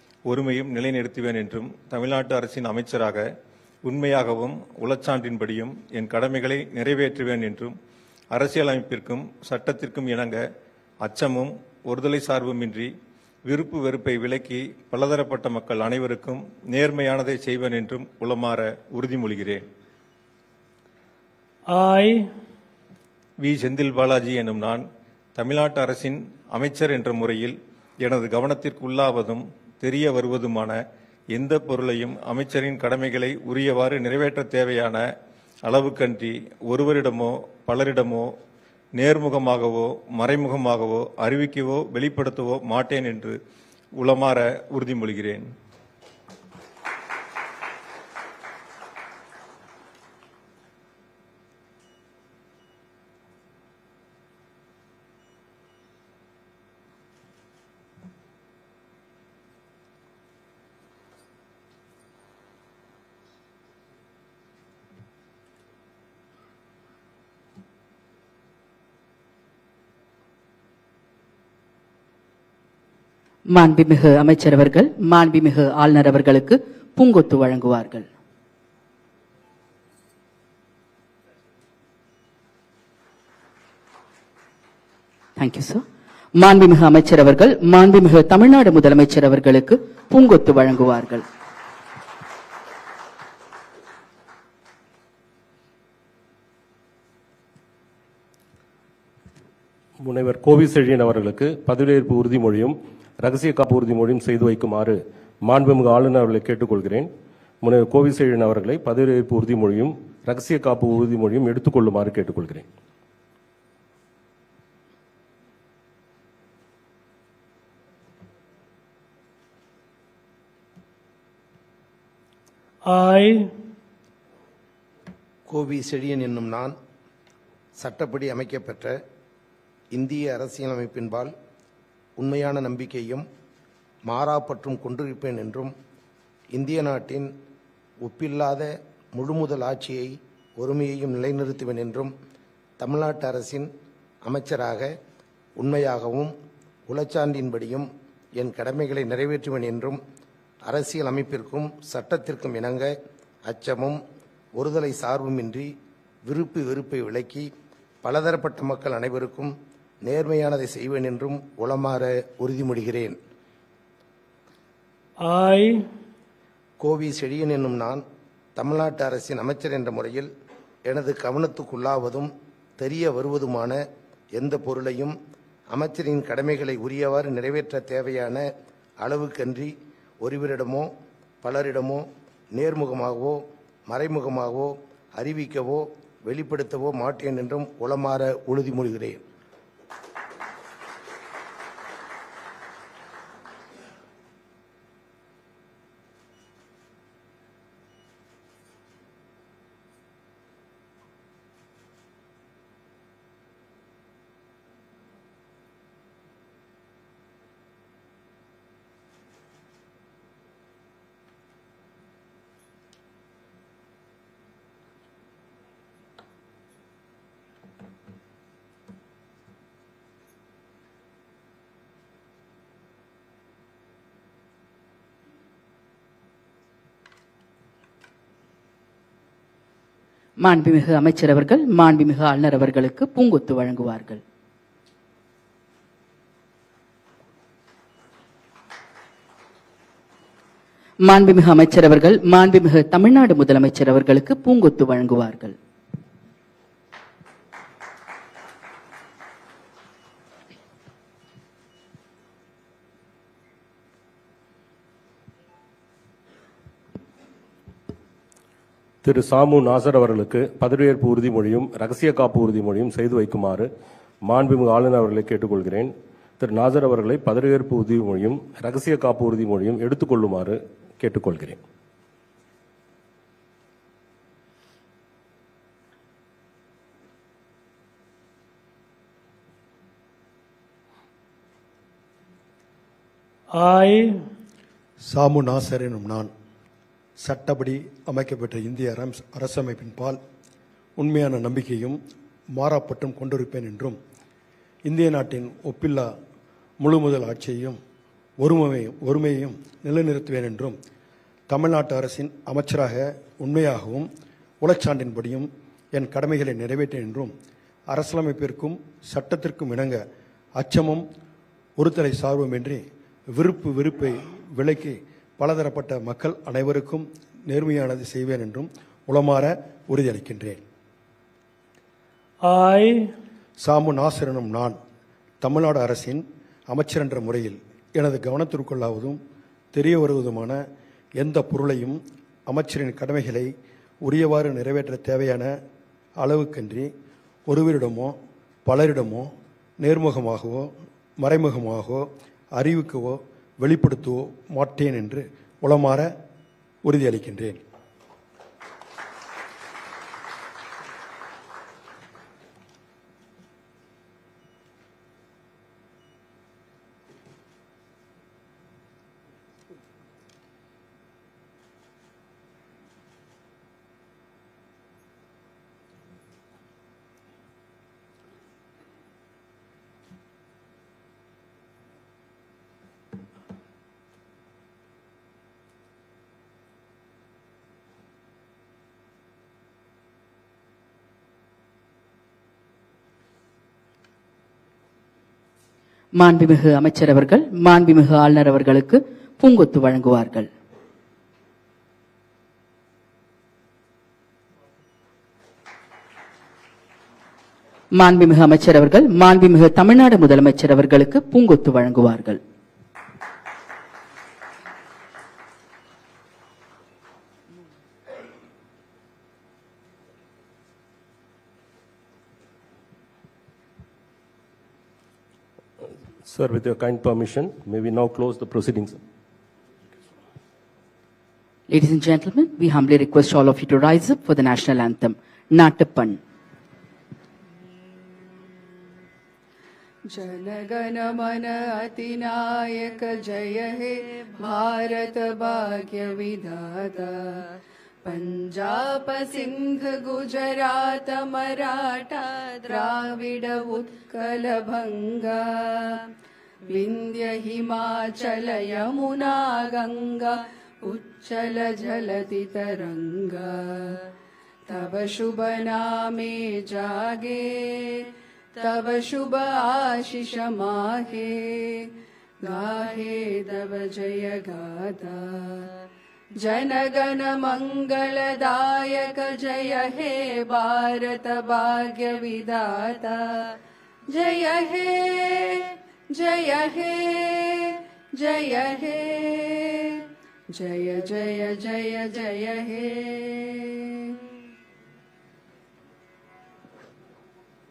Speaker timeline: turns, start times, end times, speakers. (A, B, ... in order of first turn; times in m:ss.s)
0:00.2-0:03.3 A
0:03.8-0:07.7 A
0:08.3-0:10.4 A
0:11.0-0:12.9 A
0:13.4-0:19.6 A
0:21.7-0:22.3 B
0:23.4-0:24.8 A
0:25.4-0:30.8 A
0:31.3-0:35.0 A
0:35.6-0:38.3 A
0:39.0-0:43.4 A
0:44.0-0:45.5 A
1:13.5-1:18.1 C
1:25.4-1:25.8 C
1:26.4-1:31.2 C
1:40.0-1:47.1 D
1:47.6-1:52.7 D
2:02.9-2:03.6 B
2:05.5-2:06.7 E
2:07.8-2:09.0 E
2:09.9-2:11.3 E
2:12.2-2:13.2 E
2:14.1-2:15.7 E
2:16.5-2:17.3 E
2:18.0-2:22.1 E
2:22.8-2:23.7 E
2:24.2-2:24.9 E
2:25.6-2:26.3 E
2:26.9-2:30.0 E
2:30.6-2:34.0 E
2:34.6-2:35.7 E
2:36.3-2:37.5 E
2:38.0-2:43.2 E
2:45.2-2:45.9 B
2:46.8-2:48.0 E
2:48.6-2:50.3 E
2:50.8-2:53.8 E
2:54.3-2:55.1 E
2:55.7-2:58.5 E
2:59.0-3:00.9 E
3:01.4-3:09.2 E
3:50.4-3:54.2 C
4:01.0-4:05.6 C
4:19.0-4:23.7 D
4:24.2-4:31.6 D
4:43.6-4:44.3 B
4:45.0-4:46.3 F
4:47.2-4:50.2 F
4:51.0-4:52.0 F
4:52.5-4:54.0 F
4:54.8-4:56.1 F
4:56.8-4:57.8 F
4:58.4-5:00.8 F
5:01.5-5:04.1 F
5:04.6-5:07.3 F
5:07.9-5:11.0 F
5:11.8-5:20.6 F
5:22.4-5:23.1 B
5:23.6-5:24.8 F
5:25.4-5:29.2 F
5:29.7-5:30.6 F
5:31.2-5:35.6 F
5:36.2-5:36.9 F
5:37.5-5:46.2 F
5:46.8-5:47.6 F
6:26.2-6:30.5 C
6:38.0-6:42.4 C
6:56.2-6:59.0 D
7:01.7-7:06.2 C
7:10.1-7:17.5 G
7:18.0-7:26.1 G
7:26.7-7:34.1 G
7:34.7-7:41.9 G
7:42.4-7:45.7 G
7:46.4-7:53.6 G
7:54.1-8:04.2 G